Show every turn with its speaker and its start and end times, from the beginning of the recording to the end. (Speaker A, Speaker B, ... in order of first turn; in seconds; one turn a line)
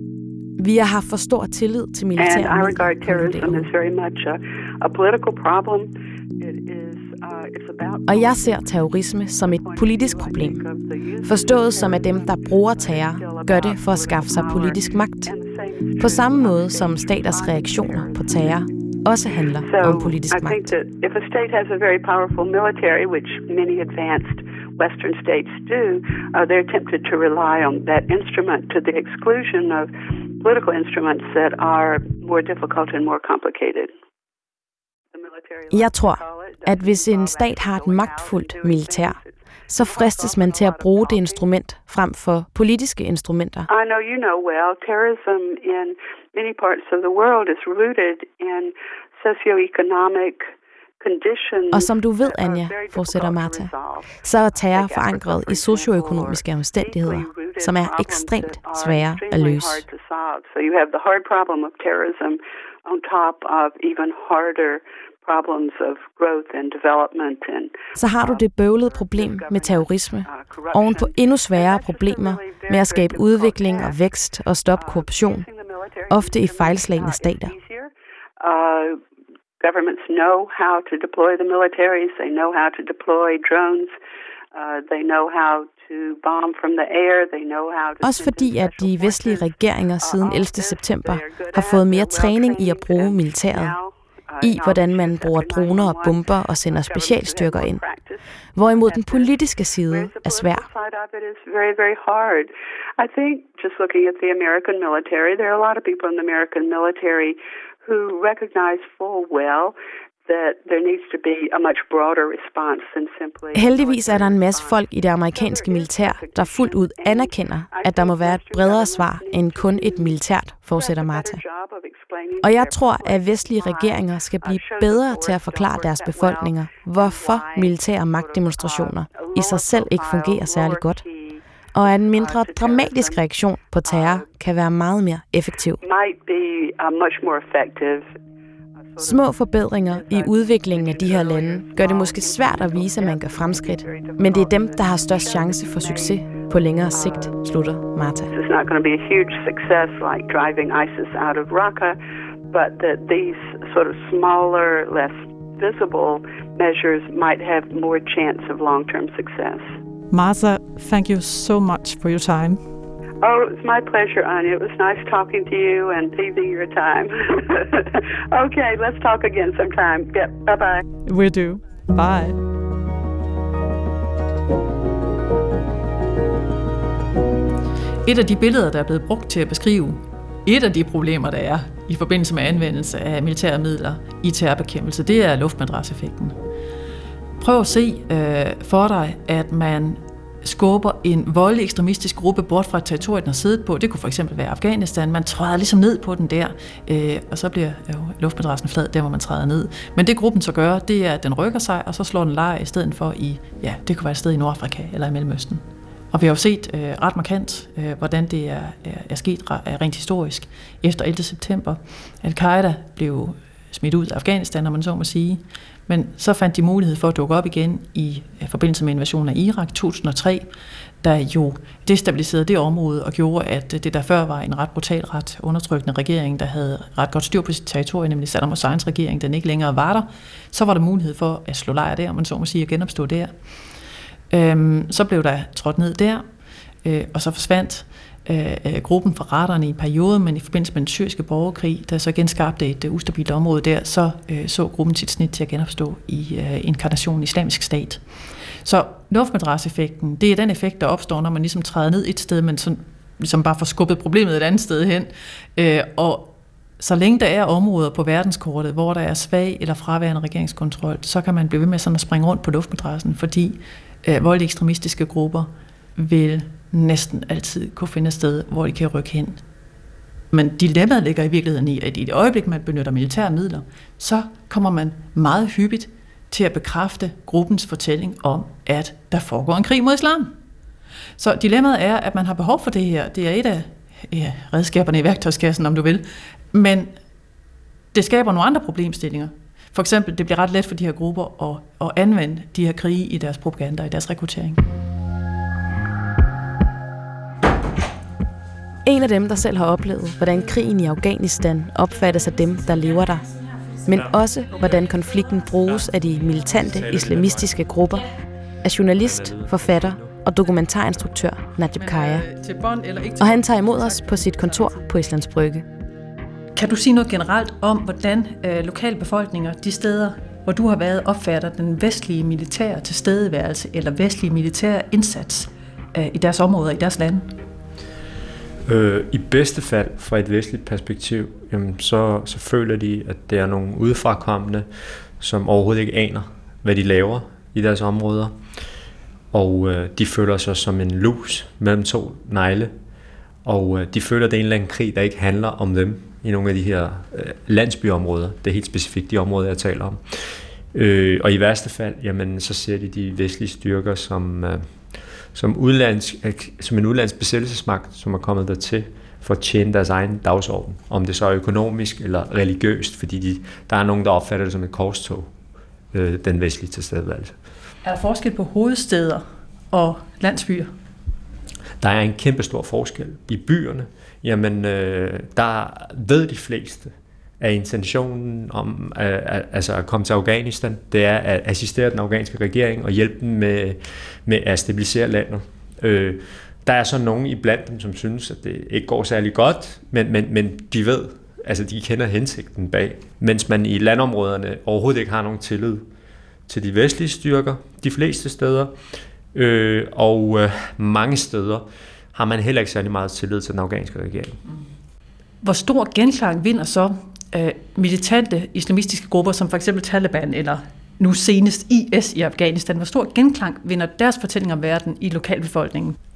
Speaker A: 0.6-3.7
Speaker B: 2.2-8.7
Speaker A: 8.1-10.6
Speaker B: 9.4-18.5
Speaker A: 11.2-15.3
Speaker A: 16.0-20.7
Speaker B: 19.6-33.9
Speaker B: 35.1-41.5
Speaker A: 35.7-43.7
Speaker B: 43.7-74.0
Speaker A: 51.7-59.9
Speaker A: 68.0-75.5
Speaker B: 74.8-79.0
Speaker A: 76.1-77.5
Speaker B: 79.6-84.0
Speaker B: 84.5-120.2
Speaker A: 88.0-93.8
Speaker A: 94.4-97.8
Speaker A: 98.5-100.7
Speaker A: 113.5-121.4
Speaker B: 120.7-133.2
Speaker A: 122.4-131.0
Speaker A: 131.7-135.8
Speaker B: 133.8-134.2
Speaker B: 135.8-138.1
Speaker B: 138.9-146.3
Speaker A: 139.0-148.3
Speaker B: 146.9-147.3
Speaker B: 148.3-152.0
Speaker B: 152.5-159.7
Speaker C: 160.1-162.6
Speaker B: 163.2-170.8
Speaker C: 171.0-172.4
Speaker C: 178.0-186.4
Speaker C: 187.4-220.5
Speaker C: 221.0-233.3
Speaker C: 234.3-236.2
Speaker C: 236.8-248.0
Speaker C: 248.6-269.4
Speaker C: 270.3-280.3
Speaker C: 281.2-286.9
Speaker C: 287.9-294.6
Speaker A: 298.8-303.3
Speaker A: 303.9-308.1
Speaker D: 303.9-305.1
Speaker D: 305.6-307.7
Speaker A: 308.6-312.3
Speaker D: 308.9-310.2
Speaker C: 311.8-314.7
Speaker A: 313.2-315.6
Speaker C: 316.6-327.3
Speaker D: 328.6-338.4
Speaker D: 339.3-342.7
Speaker D: 343.4-365.3
Speaker D: 365.9-367.4
Speaker C: 367.8-370.7
Speaker D: 371.8-395.9
Speaker D: 396.5-398.8
Speaker D: 399.3-404.4
Speaker C: 405.4-416.0